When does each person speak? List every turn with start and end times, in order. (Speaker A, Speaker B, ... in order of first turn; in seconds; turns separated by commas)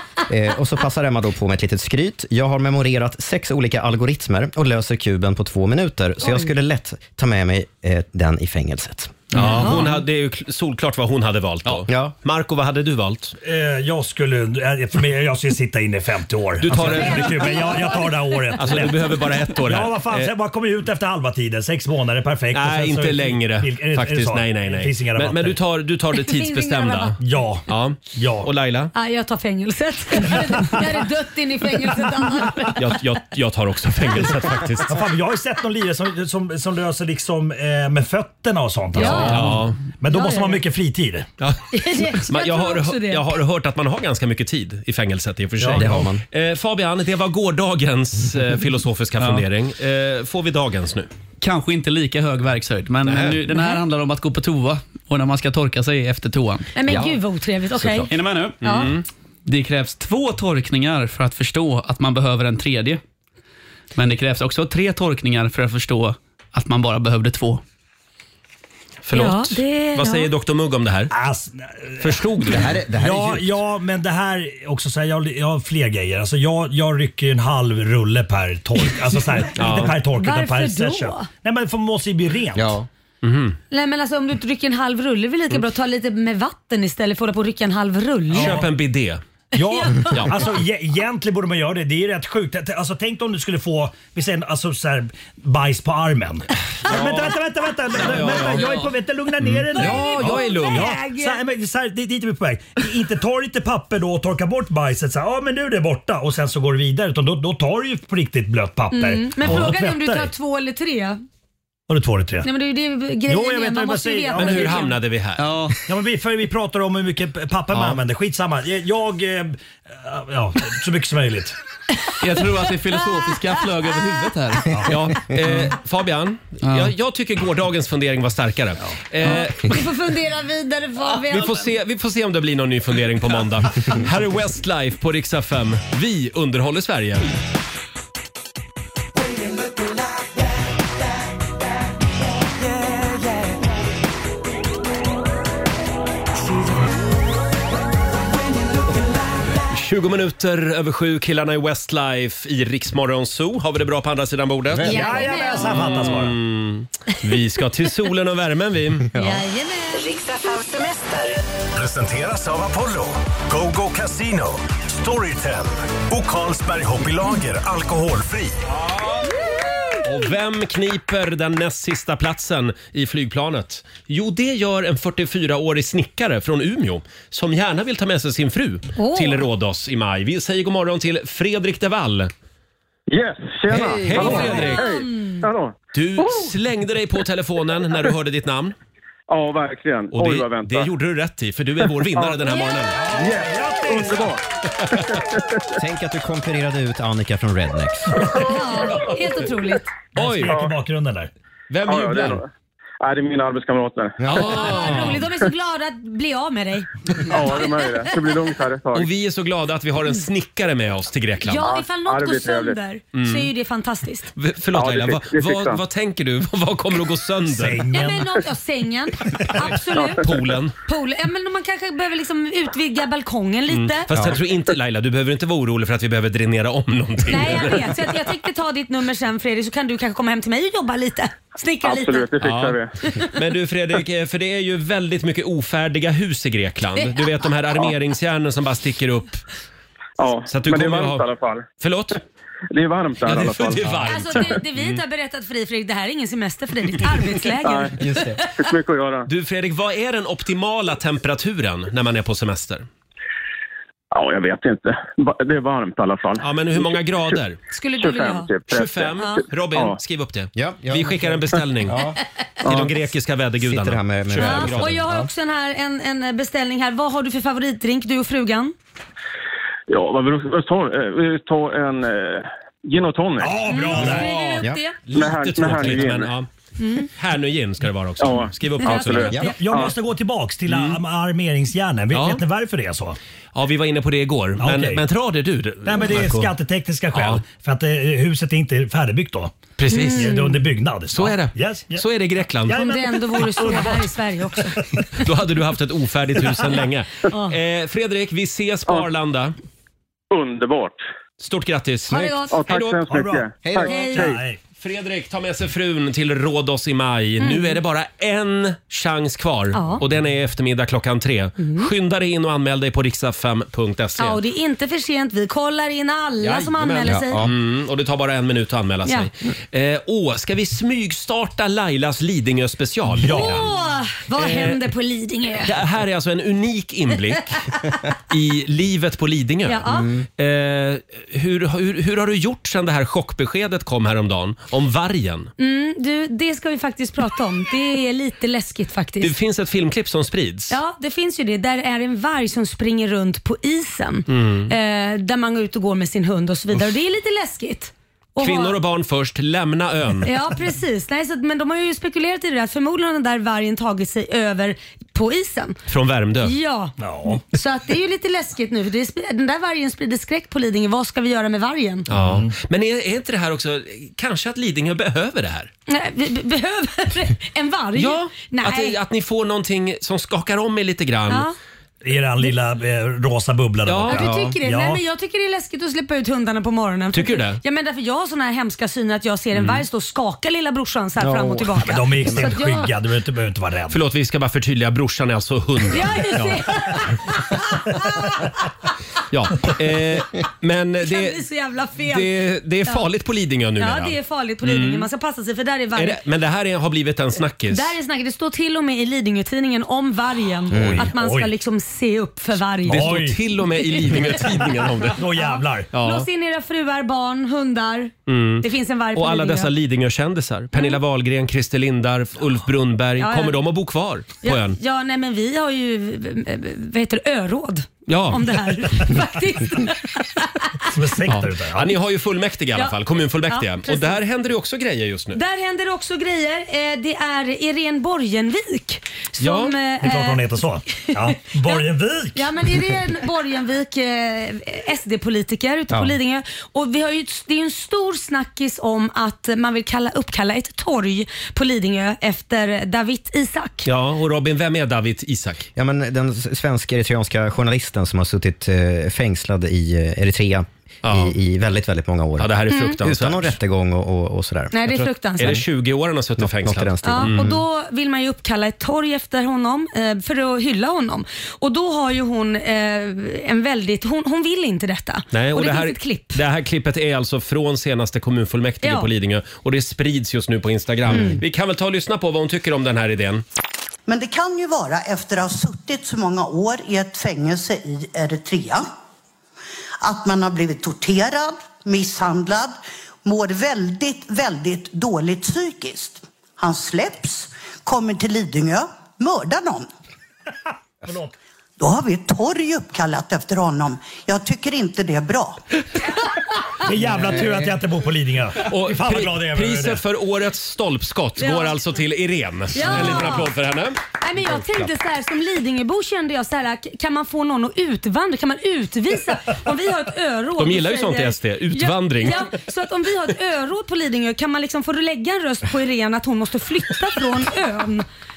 Speaker A: 0.3-9.3, Speaker B: 6.2-6.5, Speaker C: 9.3-13.4, Speaker B: 9.4-10.0, Speaker A: 11.9-12.1, Speaker D: 13.4-19.1, Speaker C: 16.6-17.6, Speaker B: 16.9-18.3, Speaker C: 18.6-20.3, Speaker D: 19.6-25.6, Speaker C: 22.5-28.9, Speaker B: 26.1-27.2, Speaker D: 27.2-28.5, Speaker B: 28.9-32.8, Speaker C: 32.8-35.0, Speaker D: 34.8-41.3, Speaker B: 38.9-40.6, Speaker C: 39.0-39.8, Speaker C: 41.4-51.1, Speaker B: 41.7-43.3, Speaker D: 45.6-45.9, Speaker A: 45.7-46.2, Speaker E: 49.2-49.4, Speaker E: 51.4-56.7, Speaker C: 53.0-53.4, Speaker B: 56.8-58.1, Speaker A: 56.9-57.1, Speaker A: 57.8-58.1, Speaker E: 58.1-58.9, Speaker B: 58.6-58.9, Speaker C: 58.6-59.0, Speaker E: 59.5-63.0, Speaker E: 63.9-67.6, Speaker C: 69.0-71.1, Speaker B: 69.1-70.3, Speaker D: 71.1-72.2, Speaker C: 72.0-72.8, Speaker A: 72.5-73.6, Speaker D: 72.9-82.8, Speaker C: 79.5-79.9, Speaker B: 80.1-81.3, Speaker A: 82.5-82.9, Speaker C: 83.2-83.6, Speaker B: 83.7-88.6, Speaker C: 88.3-89.2, Speaker D: 88.3-88.7, Speaker D: 89.5-110.3, Speaker B: 89.6-90.3, Speaker C: 90.0-90.4, Speaker C: 98.0-98.7, Speaker C: 99.7-100.9, Speaker B: 99.7-101.4, Speaker B: 108.9-111.2, Speaker D: 111.9-112.5, Speaker B: 112.4-115.0, Speaker D: 113.3-114.8, Speaker C: 114.3-115.4, Speaker E: 115.4-115.8, Speaker D: 115.9-121.5, Speaker E: 122.2-124.8, Speaker C: 124.9-129.8, Speaker E: 125.4-125.7, Speaker E: 126.6-126.9, Speaker B: 129.2-131.7, Speaker C: 131.1-137.3, Speaker C: 149.7-155.1, Speaker D: 154.8-156.3, Speaker B: 154.8-156.0, Speaker C: 155.7-159.1, Speaker A: 159.1-159.4, Speaker B: 159.1-160.2, Speaker F: 161.8-168.6, Speaker C: 170.0-182.3, Speaker B: 178.9-179.4, Speaker G: 183.1-186.3, Speaker C: 183.7-184.9, Speaker B: 184.2-185.4, Speaker C: 185.9-188.8, Speaker G: 189.3-190.9, Speaker C: 190.1-193.1, Speaker B: 192.4-192.8, Speaker D: 192.9-194.4, Speaker G: 193.1-194.4, Speaker G: 195.1-195.4, Speaker A: 195.8-198.4, Speaker B: 198.3-199.9, Speaker D: 200.1-201.3, Speaker C: 200.2-200.5, Speaker C: 201.7-202.4, Speaker G: 201.9-202.5, Speaker G: 203.0-204.2, Speaker A: 204.2-204.6, Speaker C: 204.3-205.2, Speaker B: 204.3-208.3, Speaker G: 207.3-209.1, Speaker C: 208.9-211.7, Speaker B: 211.4-214.3, Speaker G: 211.6-212.8, Speaker C: 213.1-213.5, Speaker C: 214.4-217.8, Speaker G: 214.8-215.8, Speaker D: 217.5-218.3, Speaker B: 217.9-220.2, Speaker C: 220.2-220.8, Speaker B: 220.8-224.1, Speaker C: 223.7-227.9, Speaker A: 224.1-224.4, Speaker B: 227.3-232.3, Speaker G: 231.8-232.9, Speaker C: 232.4-232.8, Speaker B: 233.0-233.3, Speaker C: 233.3-239.4, Speaker G: 240.2-241.6, Speaker C: 240.5-241.3, Speaker C: 241.8-242.2, Speaker G: 242.7-244.4, Speaker C: 243.2-245.0, Speaker B: 244.0-248.4, Speaker G: 247.6-247.9, Speaker A: 248.0-248.4, Speaker G: 248.6-249.3, Speaker C: 249.3-252.9, Speaker G: 254.1-256.9, Speaker C: 256.4-257.6, Speaker B: 257.7-258.5, Speaker G: 258.0-259.1, Speaker C: 258.7-262.0, Speaker B: 259.2-259.4, Speaker A: 260.6-262.2, Speaker C: 262.6-265.0, Speaker A: 263.6-265.3, Speaker B: 264.4-268.7, Speaker G: 269.9-273.5, Speaker D: 273.4-274.3, Speaker B: 273.6-275.0, Speaker C: 273.9-276.5, Speaker G: 275.1-276.3, Speaker B: 276.8-277.1, Speaker C: 277.1-279.4, Speaker G: 278.2-279.9, Speaker B: 278.8-279.6, Speaker A: 279.3-279.6, Speaker D: 279.4-283.2, Speaker C: 280.7-281.0, Speaker C: 282.1-282.4, Speaker C: 283.6-286.5, Speaker D: 284.6-285.0, Speaker D: 285.9-289.5, Speaker C: 287.1-287.4, Speaker C: 289.8-290.4, Speaker B: 289.9-290.6, Speaker D: 290.1-292.0, Speaker C: 291.1-292.9, Speaker D: 292.7-294.8, Speaker B: 292.7-294.8, Speaker C: 295.2-299.6, Speaker B: 297.3-297.6, Speaker G: 300.3-301.0, Speaker C: 301.4-303.0, Speaker B: 302.1-302.6, Speaker G: 302.5-304.4, Speaker D: 303.1-304.6, Speaker A: 303.6-303.9, Speaker B: 303.8-304.4, Speaker C: 304.8-314.4, Speaker B: 307.4-307.8, Speaker B: 309.7-310.0, Speaker B: 311.6-311.9, Speaker B: 314.2-317.5, Speaker C: 316.4-323.7, Speaker A: 317.1-317.5, Speaker B: 319.1-319.3, Speaker D: 323.2-323.7, Speaker B: 323.2-325.8, Speaker C: 324.4-324.8, Speaker C: 325.6-327.6, Speaker C: 328.3-329.9, Speaker B: 329.6-330.1, Speaker A: 329.9-330.3, Speaker C: 330.4-335.5, Speaker B: 335.6-339.3, Speaker C: 339.2-340.8, Speaker B: 340.7-348.8, Speaker C: 344.3-344.7, Speaker C: 348.4-350.3, Speaker B: 350.2-355.8, Speaker C: 355.9-356.5, Speaker B: 356.4-362.1, Speaker D: 357.0-357.4, Speaker C: 362.1-365.7, Speaker D: 362.1-362.5, Speaker B: 365.9-369.0, Speaker C: 367.9-371.5, Speaker B: 371.3-371.6, Speaker D: 372.0-375.0, Speaker C: 373.9-374.3, Speaker B: 374.1-382.9, Speaker A: 374.2-374.6, Speaker C: 377.1-377.6, Speaker C: 379.5-379.9, Speaker A: 381.2-382.5, Speaker D: 381.8-384.0, Speaker C: 383.9-386.7, Speaker B: 385.9-388.5, Speaker C: 389.3-391.4, Speaker B: 391.0-393.1, Speaker C: 392.1-395.1, Speaker B: 393.8-396.2, Speaker C: 395.9-397.9, Speaker B: 397.7-404.4, Speaker A: 400.7-401.1, Speaker D: 400.7-401.5, Speaker C: 402.9-405.2, Speaker D: 402.9-403.4, Speaker D: 405.1-405.9, Speaker B: 405.3-409.7, Speaker C: 405.9-406.3, Speaker C: 408.3-414.8, Speaker B: 410.7-411.0, Speaker B: 413.2-413.6, Speaker B: 414.4-420.9, Speaker C: 418.1-418.8, Speaker D: 420.9-422.0, Speaker C: 421.3-425.4, Speaker B: 422.7-424.2, Speaker B: 425.3-443.9, Speaker C: 429.4-429.8, Speaker D: 430.0-432.5, Speaker A: 435.9-436.1, Speaker C: 443.9-445.7, Speaker A: 445.8-455.6, Speaker C: 451.0-451.4, Speaker C: 452.4-453.6, Speaker B: 452.7-453.0, Speaker B: 454.7-455.6, Speaker C: 454.9-457.5, Speaker A: 456.4-457.6, Speaker B: 457.0-466.4, Speaker C: 465.3-473.4, Speaker B: 468.8-469.1, Speaker B: 471.1-471.4, Speaker H: 474.1-478.9, Speaker H: 480.0-489.9, Speaker D: 491.0-491.3, Speaker H: 491.8-495.6, Speaker D: 496.8-500.0, Speaker C: 498.6-504.0, Speaker B: 501.4-501.8, Speaker B: 502.7-503.6, Speaker B: 504.2-518.0, Speaker C: 510.6-512.5